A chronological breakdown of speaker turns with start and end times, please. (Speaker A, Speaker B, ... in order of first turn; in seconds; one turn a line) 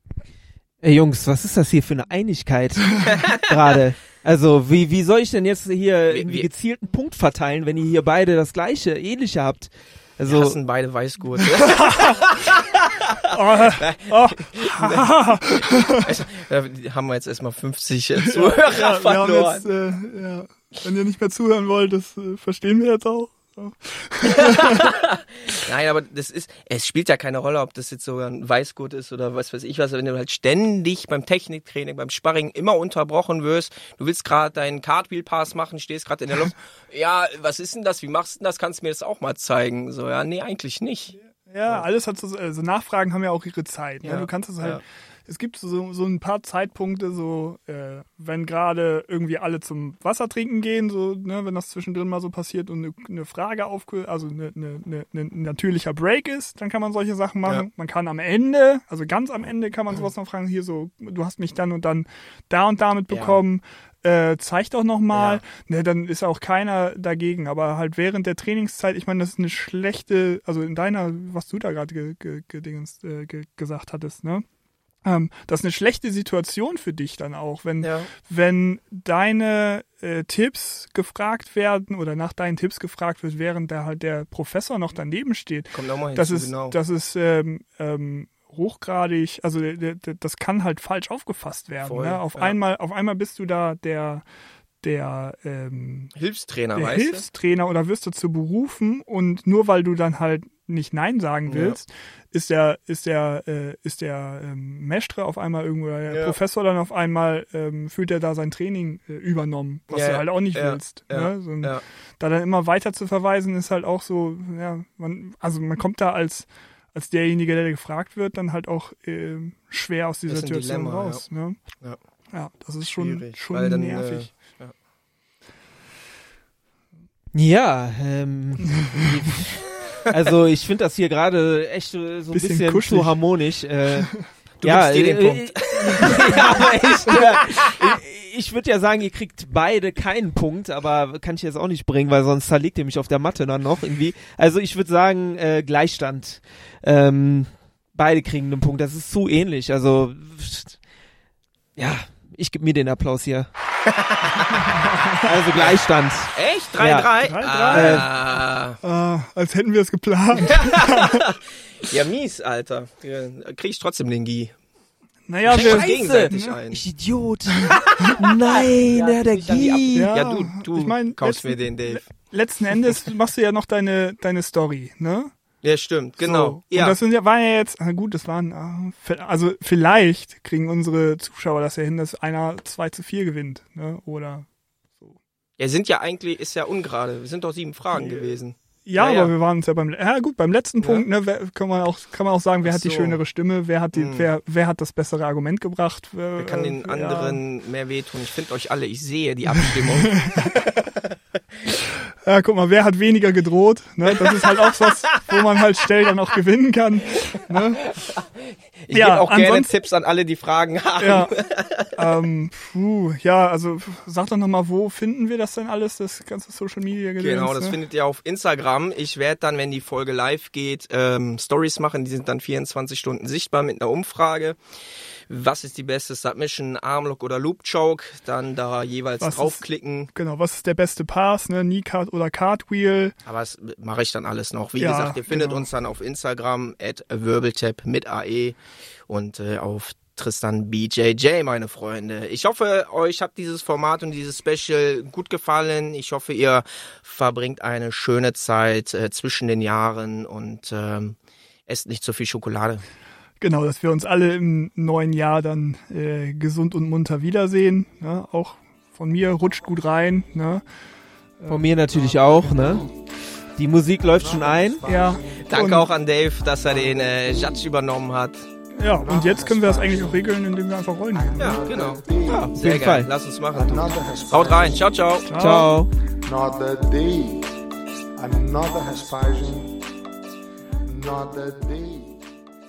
Speaker A: 0.8-10.6
Speaker B: 3.1-3.4
Speaker B: 6.1-6.5
Speaker B: 10.3-19.7
Speaker C: 11.5-12.2
Speaker C: 13.3-16.1
Speaker C: 18.2-24.9
Speaker B: 24.4-41.2
Speaker C: 41.1-74.4
Speaker B: 44.0-44.8
Speaker B: 63.1-63.4
Speaker B: 65.1-65.5
Speaker C: 75.0-94.2
Speaker B: 77.8-78.1
Speaker B: 85.7-86.8
Speaker B: 91.8-92.6
Speaker C: 94.8-96.1
Speaker B: 96.2-97.2
Speaker C: 96.8-121.6
Speaker B: 101.5-101.8
Speaker B: 106.1-106.4
Speaker B: 109.9-111.8
Speaker B: 120.3-121.2
Speaker C: 122.3-124.3
Speaker B: 122.9-124.7
Speaker A: 127.3-150.8
Speaker C: 128.8-129.1
Speaker C: 132.3-133.2
Speaker B: 134.6-138.0
Speaker A: 151.8-153.5
Speaker B: 153.9-154.6
Speaker C: 154.8-155.3
Speaker A: 155.2-157.1
Speaker B: 156.3-158.8
Speaker C: 157.2-158.1
Speaker A: 157.7-158.1
Speaker C: 158.8-161.2
Speaker B: 160.5-164.6
Speaker C: 165.3-166.6
Speaker B: 165.5-166.8
Speaker A: 165.5-170.1
Speaker B: 167.7-172.1
Speaker C: 169.9-175.3
Speaker B: 175.6-177.0
Speaker C: 176.2-184.5
Speaker B: 185.6-189.3
Speaker C: 187.9-197.4
Speaker B: 190.8-191.1
Speaker B: 192.6-193.2
Speaker B: 193.9-194.3
Speaker B: 196.4-201.0
Speaker C: 200.0-200.5
Speaker C: 202.3-207.9
Speaker B: 204.4-204.9
Speaker B: 207.5-212.1
Speaker C: 208.9-209.7
Speaker C: 211.0-211.3
Speaker C: 211.9-217.8
Speaker B: 217.2-224.6
Speaker B: 225.3-230.1
Speaker C: 229.2-233.2
Speaker B: 233.2-252.8
Speaker C: 234.8-235.7
Speaker C: 253.4-260.6
Speaker C: 261.4-261.7
Speaker A: 261.5-262.9
Speaker D: 261.9-262.9
Speaker A: 263.6-264.9
Speaker D: 264.0-265.8
Speaker C: 264.9-265.9
Speaker B: 265.4-268.4
Speaker D: 266.8-267.6
Speaker C: 268.8-271.6
Speaker D: 268.9-270.3
Speaker D: 271.1-272.8
Speaker B: 271.4-275.3
Speaker A: 272.6-273.1
Speaker D: 273.5-274.9
Speaker C: 275.2-275.8
Speaker A: 275.4-275.9
Speaker D: 276.2-277.6
Speaker D: 278.2-279.8
Speaker D: 280.9-282.3